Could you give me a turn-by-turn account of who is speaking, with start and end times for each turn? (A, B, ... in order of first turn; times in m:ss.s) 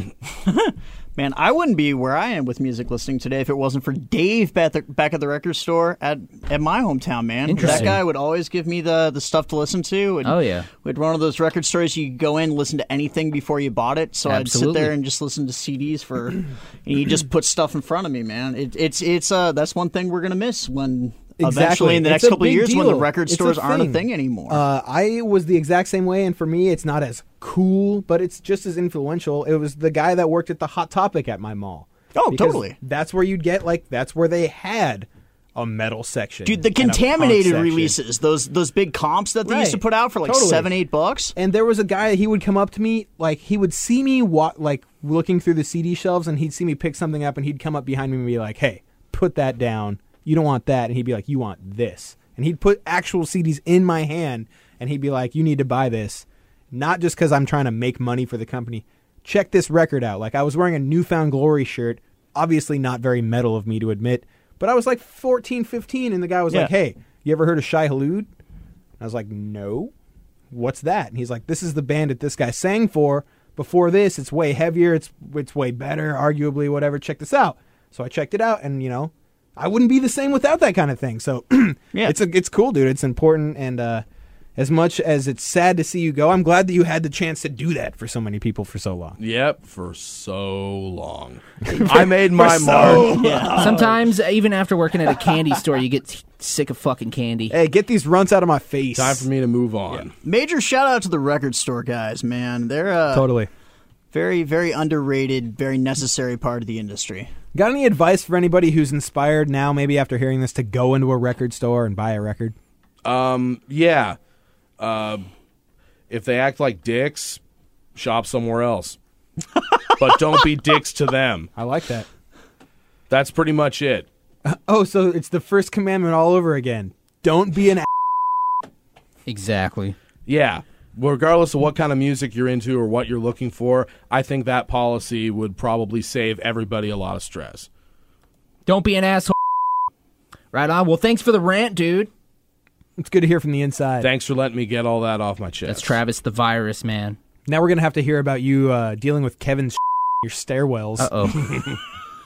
0:00.4-0:24.6 A
0:07.5-0:08.0 B
0:07.6-0:08.0 C
0:10.2-0:10.7 B
0:14.3-0:14.9 B
0:21.4-0:38.0 C
0:32.2-0:32.8 A
0:36.5-0:41.3 A
0:39.4-0:40.8 C
0:41.4-1:08.3 C
1:09.0-1:09.9 C
1:10.5-1:24.0 C
1:24.6-1:29.2 C
1:29.2-1:33.1 D
1:31.7-1:33.8 C
1:32.6-1:34.0 A
1:33.5-1:37.6 B
1:37.5-1:39.3 C
1:39.0-1:40.1 D
1:40.2-1:43.3 A
1:43.1-1:43.5 C
1:44.1-1:47.3 A
1:47.5-1:52.6 C
1:53.0-1:54.2 D
1:54.8-1:55.2 D
1:56.1-1:57.4 D
1:58.0-1:59.0 D
2:00.0-2:01.5 D
2:01.6-2:02.1 C
2:03.1-2:04.1 D
2:04.5-2:07.9 C
2:09.3-2:10.0 B
2:10.3-2:17.7 D
2:18.7-2:19.3 B
2:20.5-2:22.1 B
2:23.0-2:24.1 C
2:24.0-2:26.0 D
2:25.7-2:27.2 B
2:27.5-2:31.6 C
2:31.0-2:31.7 B